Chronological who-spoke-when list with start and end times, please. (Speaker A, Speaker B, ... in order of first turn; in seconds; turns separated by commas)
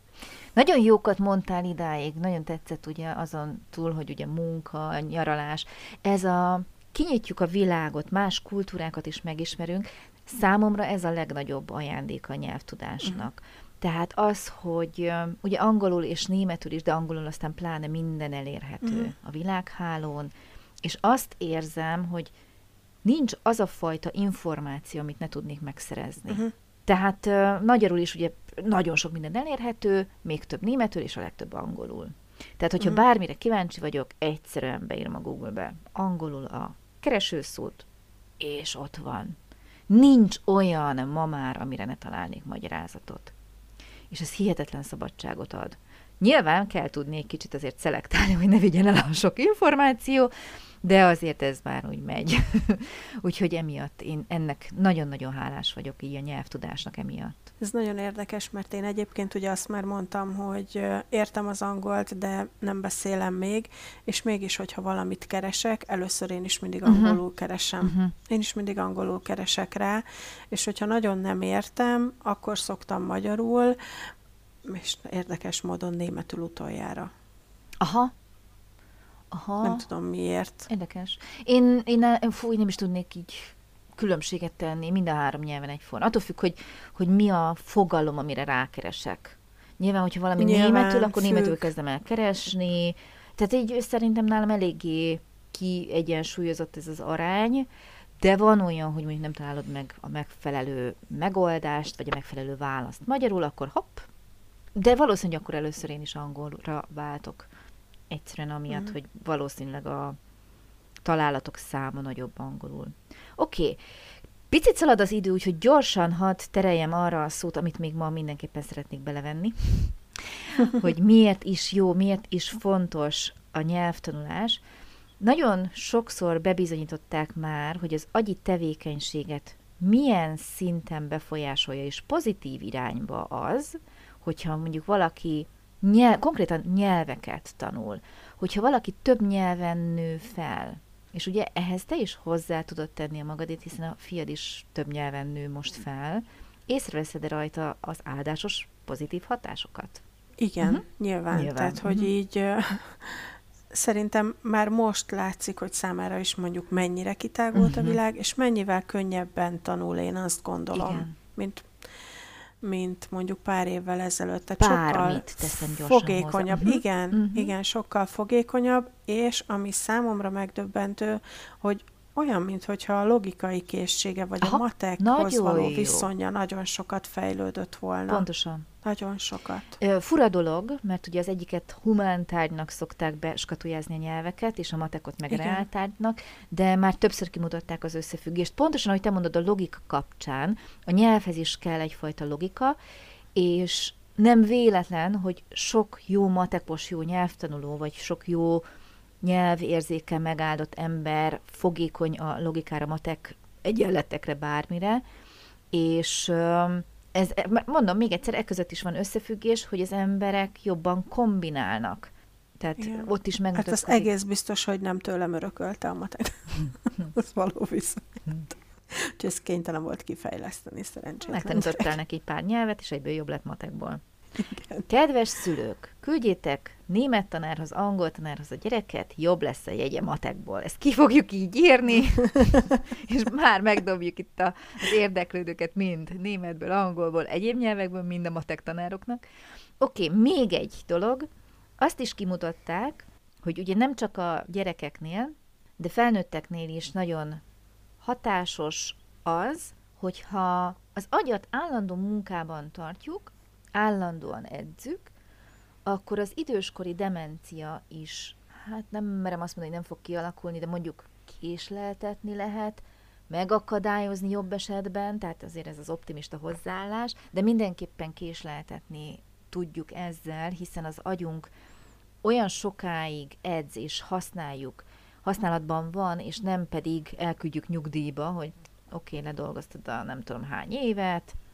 Speaker A: 0.6-20.3, Speaker B: 18.8-19.1, Speaker A: 20.8-22.3, Speaker A: 23.0-37.9, Speaker A: 38.4-39.4, Speaker A: 39.9-43.3, Speaker A: 44.1-50.3, Speaker A: 50.8-57.5, Speaker B: 57.6-73.8, Speaker A: 66.8-67.2, Speaker A: 67.8-68.1, Speaker B: 74.6-77.1, Speaker A: 77.8-78.1, Speaker A: 79.3-79.8, Speaker B: 79.6-80.7, Speaker A: 80.7-97.7, Speaker B: 90.4-91.7, Speaker A: 98.2-104.1, Speaker A: 104.7-107.5, Speaker A: 108.1-110.2, Speaker A: 111.0-113.8, Speaker A: 114.5-120.0, Speaker A: 120.5-124.6, Speaker A: 125.2-150.0, Speaker B: 150.4-161.7, Speaker A: 150.6-152.1, Speaker A: 157.5-158.0, Speaker A: 160.7-161.2, Speaker B: 162.6-178.3, Speaker A: 164.6-167.5, Speaker A: 174.4-176.1, Speaker A: 178.1-178.7, Speaker B: 178.8-179.8, Speaker A: 179.8-192.8, Speaker B: 185.3-185.6, Speaker A: 193.3-198.6, Speaker A: 199.2-205.0, Speaker A: 205.7-214.1, Speaker B: 212.8-221.9, Speaker A: 221.2-224.0, Speaker B: 224.4-224.8, Speaker A: 224.9-239.2, Speaker A: 239.8-241.3, Speaker A: 241.8-247.4, Speaker A: 248.0-255.1, Speaker A: 255.8-271.5, Speaker A: 272.2-281.4